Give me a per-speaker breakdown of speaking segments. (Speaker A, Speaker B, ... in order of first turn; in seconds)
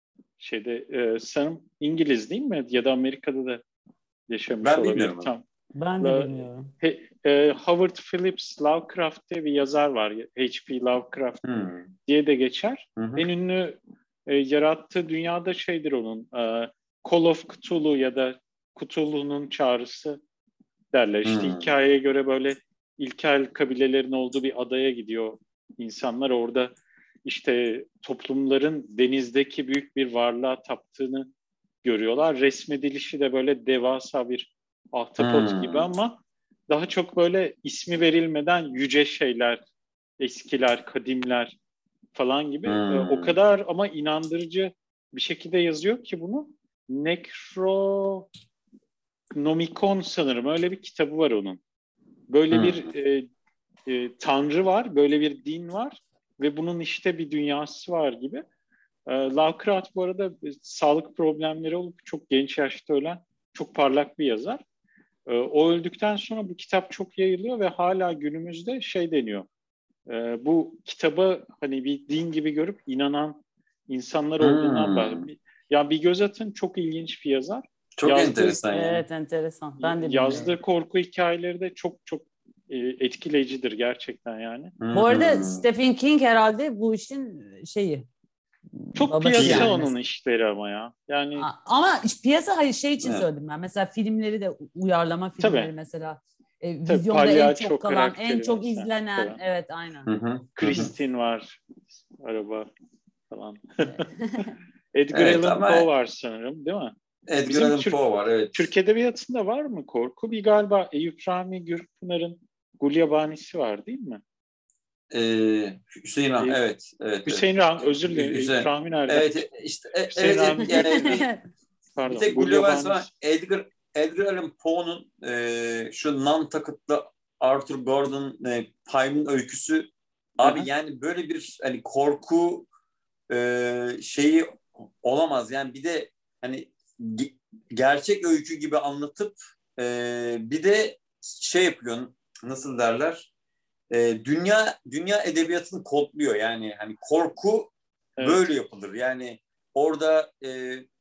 Speaker A: 0.4-3.6, 4.3-5.4, 6.0-11.4, 11.9-20.2, 20.9-31.3, 31.8-39.6, 40.2-41.5, 42.1-48.3, 49.3-51.6, 52.3-53.3, 53.9-58.4, 59.0-64.6, 65.2-69.5, 70.1-78.6, 79.8-84.7, 89.0-91.5, 95.4-95.7, 96.9-99.4, 100.6-102.7, 103.3-104.1, 104.9-108.0, 108.5-114.2, 117.2-119.5, 120.1-121.2, 122.0-123.1, 130.4-130.7
Speaker B: 4.6-5.3, 11.4-11.9, 13.0-13.3, 21.2-21.7, 35.2-35.9, 42.6-43.4, 52.5-52.9, 74.4-75.2, 78.0-79.0, 84.8-85.6, 89.3-89.7, 100.0-100.9, 105.1-105.9, 107.3-108.7, 115.1-117.4, 118.1-121.3, 122.1-132.7, 133.3-143.3, 143.9-150.8
Speaker C: 5.7-6.7, 78.7-80.5, 84.9-88.0, 88.8-89.9, 91.4-100.1, 103.9-104.5, 120.7-121.4